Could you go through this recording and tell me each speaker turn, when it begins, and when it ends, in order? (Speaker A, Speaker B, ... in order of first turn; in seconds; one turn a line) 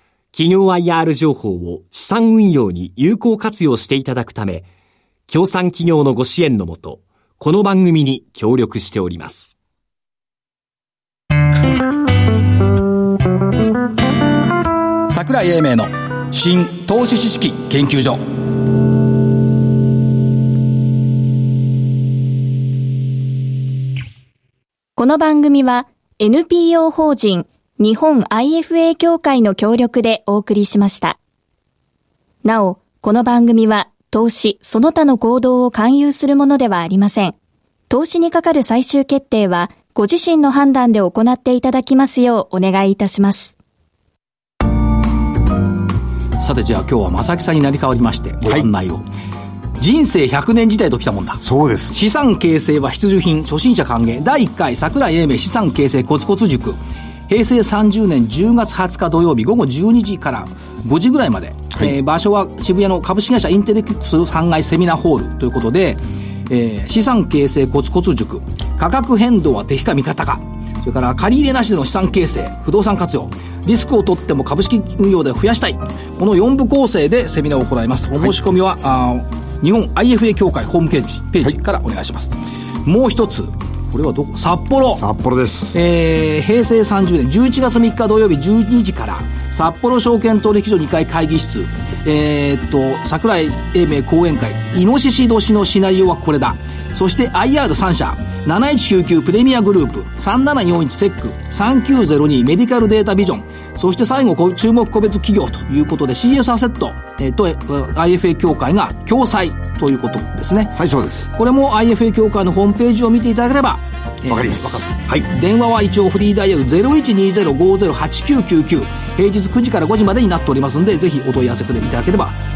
Speaker A: 0.3-4.7
Speaker A: 5.3-9.6
Speaker B: 15.1-18.3
Speaker C: 24.9-31.2
Speaker C: 32.4-37.3
Speaker C: 37.9-43.5
Speaker B: 46.4-49.0
Speaker B: 49.8-85.0
Speaker D: 51.4-52.0
Speaker D: 84.9-85.8
Speaker B: 85.7-110.8
Speaker D: 110.7-111.3
Speaker B: 111.3-122.4
Speaker D: 114.3-115.3